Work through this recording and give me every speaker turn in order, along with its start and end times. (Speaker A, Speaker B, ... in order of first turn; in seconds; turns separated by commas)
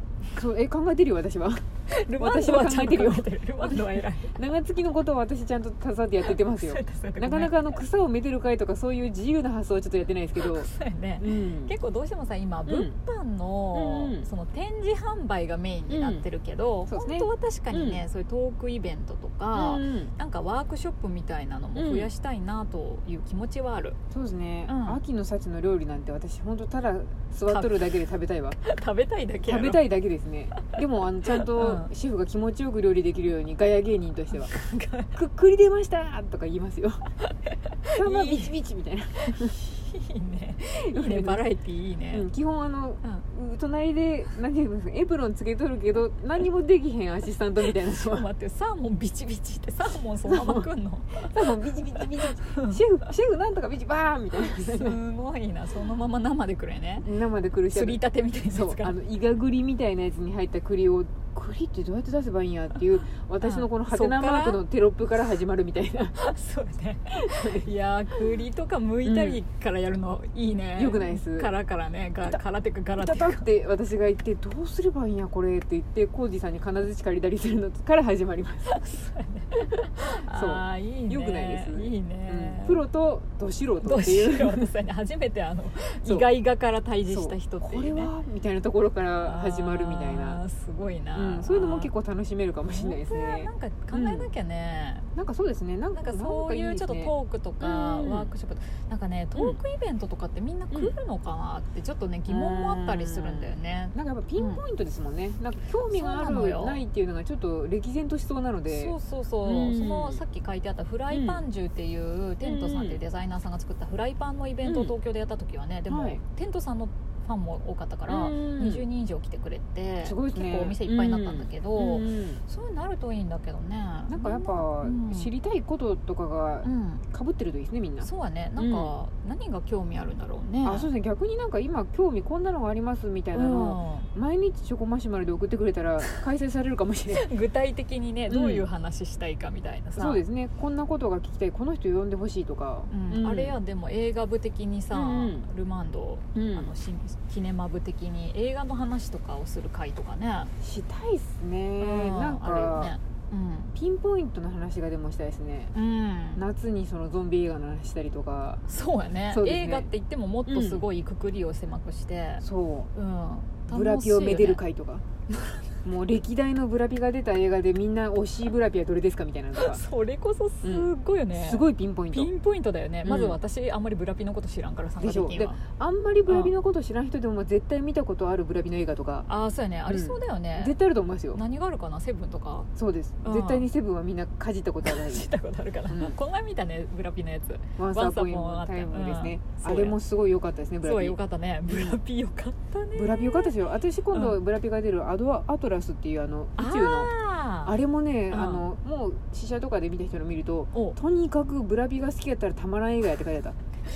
Speaker A: 0.3-10.7, Speaker B: 1.9-4.4, Speaker B: 6.2-7.6, Speaker B: 10.4-24.0, Speaker A: 11.2-11.7, Speaker A: 12.7-12.9, Speaker A: 13.7-14.3, Speaker A: 15.9-16.2, Speaker A: 16.9-18.0, Speaker A: 19.5-20.1, Speaker A: 21.8-22.1, Speaker A: 24.1-28.6, Speaker B: 24.7-25.0, Speaker B: 27.5-27.8, Speaker B: 28.6-29.8, Speaker A: 29.4-34.5, Speaker B: 30.6-31.9, Speaker B: 34.3-35.1, Speaker A: 35.1-37.0, Speaker B: 37.2-38.5, Speaker A: 37.9-39.5, Speaker B: 39.2-42.3, Speaker A: 40.8-41.4, Speaker A: 42.1-48.3, Speaker B: 47.8-52.8, Speaker A: 50.2-55.0, Speaker B: 54.4-57.1, Speaker A: 57.0-66.2, Speaker B: 57.7-58.9, Speaker B: 63.4-64.6, Speaker B: 66.2-73.4, Speaker A: 67.1-67.7, Speaker A: 69.0-69.4, Speaker A: 70.8-71.5, Speaker A: 73.0-78.8, Speaker B: 78.7-82.8, Speaker A: 80.3-84.7, Speaker B: 83.8-88.1, Speaker A: 87.1-90.4, Speaker B: 89.2-91.9, Speaker A: 91.1-94.3, Speaker B: 92.6-95.1, Speaker A: 95.2-98.3, Speaker B: 95.9-104.6, Speaker A: 99.3-99.6, Speaker A: 102.3-110.2, Speaker B: 105.9-106.8, Speaker B: 108.7-125.3, Speaker A: 111.1-111.4, Speaker A: 112.4-113.0, Speaker A: 114.6-114.9, Speaker A: 115.9-116.2, Speaker A: 118.1-118.8, Speaker A: 120.0-122.4, Speaker A: 124.1-128.9, Speaker B: 126.6-127.0, Speaker B: 128.0-130.9, Speaker A: 130.6-137.2, Speaker B: 133.3-134.1, Speaker B: 137.1-140.2, Speaker A: 138.3-138.6, Speaker A: 139.9-143.6, Speaker B: 142.9-150.5, Speaker A: 144.9-145.4, Speaker A: 146.3-146.7, Speaker A: 150.6-153.0, Speaker B: 151.8-153.7, Speaker A: 153.7-155.7, Speaker B: 155.7-156.4, Speaker A: 156.3-158.6, Speaker B: 158.7-164.6, Speaker A: 159.3-159.9, Speaker A: 160.5-160.8, Speaker A: 162.4-162.9, Speaker A: 163.7-165.0, Speaker A: 165.8-169.8, Speaker B: 169.5-175.6, Speaker A: 170.6-172.3, Speaker A: 173.0-173.4, Speaker A: 175.0-179.3, Speaker B: 176.3-176.5, Speaker B: 179.3-180.7, Speaker A: 179.9-181.4, Speaker B: 181.3-182.7, Speaker A: 182.8-185.3, Speaker B: 183.2-183.6, Speaker B: 184.8-190.0, Speaker A: 185.9-186.2, Speaker A: 187.8-191.2, Speaker B: 190.8-193.5, Speaker A: 191.7-192.0, Speaker A: 192.9-197.1, Speaker B: 194.1-194.4, Speaker B: 196.6-197.7, Speaker A: 197.6-203.6, Speaker B: 198.3-198.7